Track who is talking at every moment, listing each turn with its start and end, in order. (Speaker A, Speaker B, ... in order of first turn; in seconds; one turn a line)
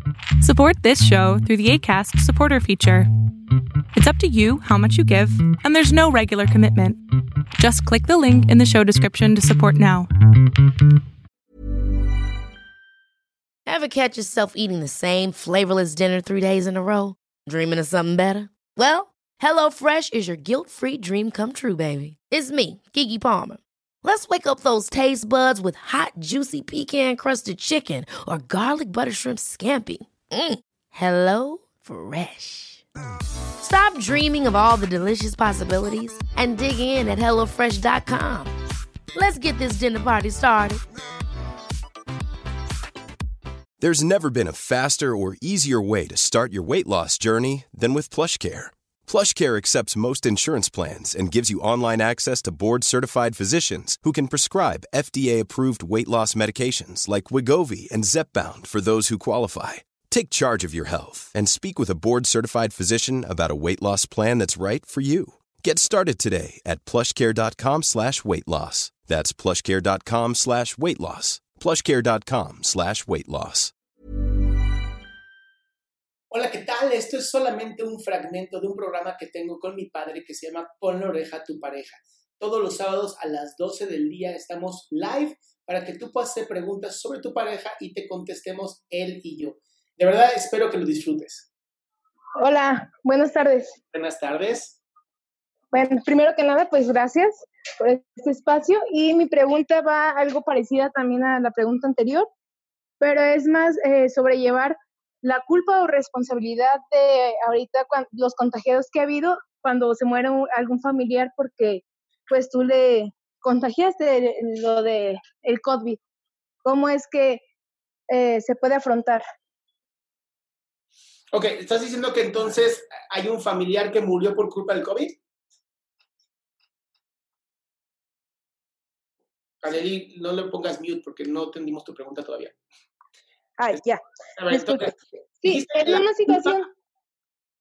Speaker A: 0.4-3.1
Speaker A: 3.9-7.0
Speaker A: 7.6-10.1
Speaker B: 13.7-32.8
Speaker B: 33.6-38.5
Speaker B: 39.1-40.8
Speaker C: 43.8-73.7
Speaker D: 76.3-91.5
Speaker E: 92.4-93.8
Speaker D: 93.9-94.8
Speaker E: 95.7-102.3
Speaker E: 103.0-116.0
Speaker E: 116.6-117.4
Speaker E: 118.1-119.2
Speaker D: 121.3-125.2
Speaker D: 129.6-132.6
Speaker E: 133.6-136.7
Speaker D: 134.4-136.6